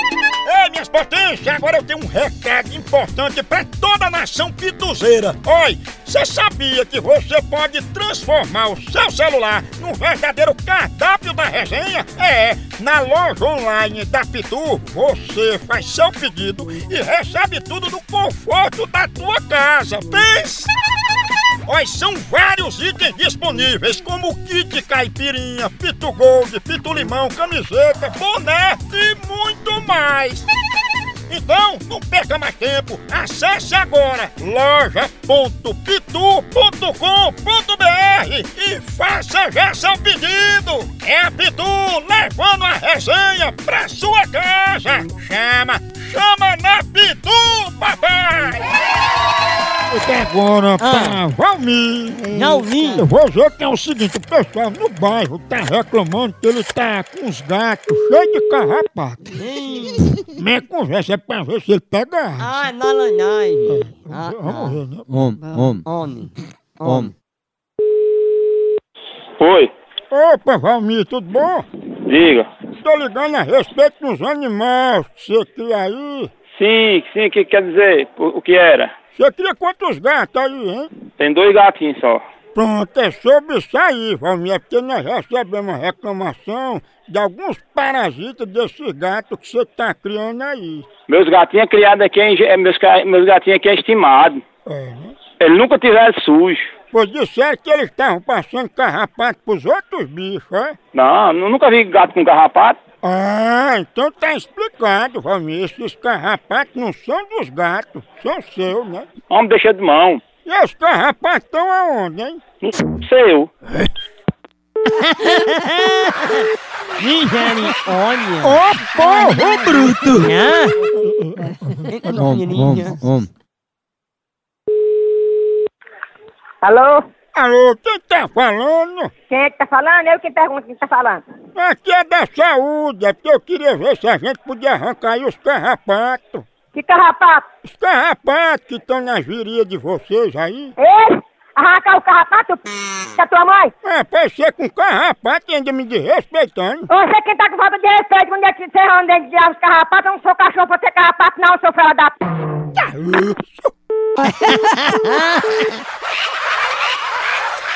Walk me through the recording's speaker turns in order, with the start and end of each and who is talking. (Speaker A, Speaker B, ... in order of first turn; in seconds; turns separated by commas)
Speaker A: 0.5-20.7, Speaker A: 21.7-30.5, Speaker A: 31.3-48.7, Speaker A: 49.9-59.4, Speaker B: 50.8-51.2, Speaker B: 52.3-53.1, Speaker B: 59.3-60.2, Speaker A: 60.2-62.6, Speaker B: 62.4-64.8, Speaker A: 63.7-65.1, Speaker C: 65.1-65.8, Speaker B: 65.9-67.1, Speaker C: 66.8-67.1, Speaker D: 69.4-69.7, Speaker A: 70.1-71.7, Speaker D: 72.1-72.5, Speaker A: 72.8-76.3, Speaker D: 76.5-78.9, Speaker A: 79.1-80.9, Speaker D: 81.2-82.2, Speaker A: 82.5-90.9, Speaker D: 91.1-94.4, Speaker A: 94.7-95.2, Speaker D: 95.4-96.7, Speaker A: 96.9-100.8, Speaker D: 100.9-102.8, Speaker A: 103.0-109.1, Speaker D: 109.3-110.2, Speaker A: 110.5-112.4, Speaker D: 112.6-113.5, Speaker B: 114.9-116.4, Speaker B: 117.0-120.8, Speaker A: 118.4-120.2, Speaker A: 121.0-121.5, Speaker B: 121.8-123.0, Speaker C: 122.2-123.3, Speaker E: 126.6-127.0, Speaker A: 127.3-129.1, Speaker E: 129.3-131.2, Speaker A: 131.6-136.5, Speaker E: 136.7-137.4, Speaker A: 137.6-140.7, Speaker E: 140.8-143.7, Speaker A: 143.8-146.9, Speaker E: 146.9-152.2, Speaker A: 152.8-153.7, Speaker B: 154.6-155.1